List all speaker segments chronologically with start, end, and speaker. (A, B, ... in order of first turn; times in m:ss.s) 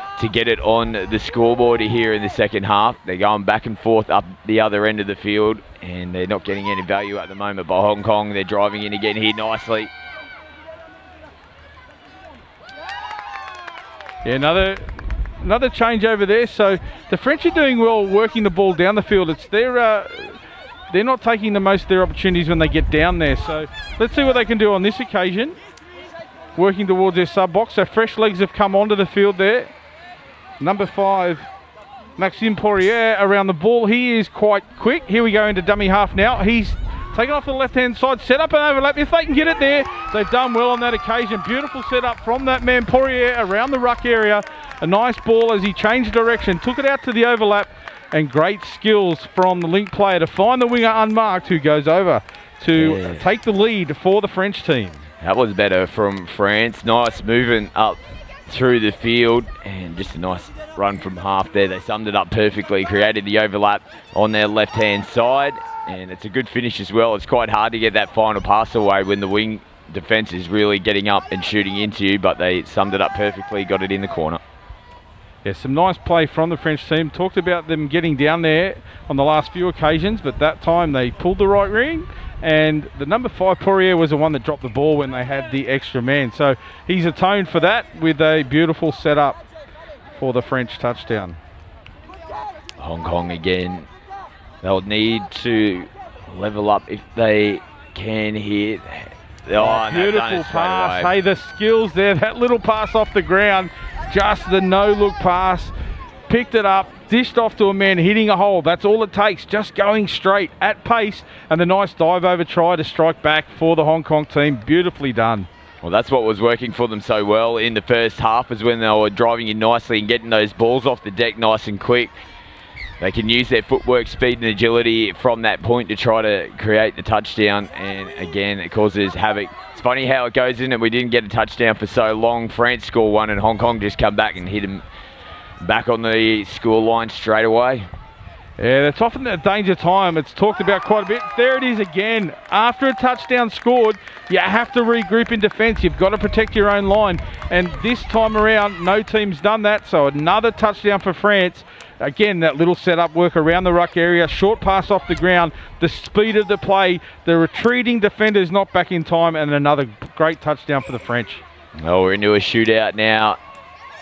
0:00.2-0:09.9 A
0:14.2-0:20.4 B
0:20.9-0:25.6 B
0:26.6-0:29.7 B
0:30.6-0:31.5 B
0:32.2-0:55.1 B
0:52.7-0:53.3 A
0:55.2-1:14.4 A
1:15.4-1:29.4 B
1:30.1-1:31.4 B
1:32.8-1:33.9 A
1:34.6-1:41.1 A
1:39.6-1:45.7 B
1:46.3-1:55.5 B
1:55.8-2:02.2 A
2:03.0-2:14.8 A
2:15.6-2:17.9 A
2:18.6-2:41.4 B
2:41.8-2:43.4 A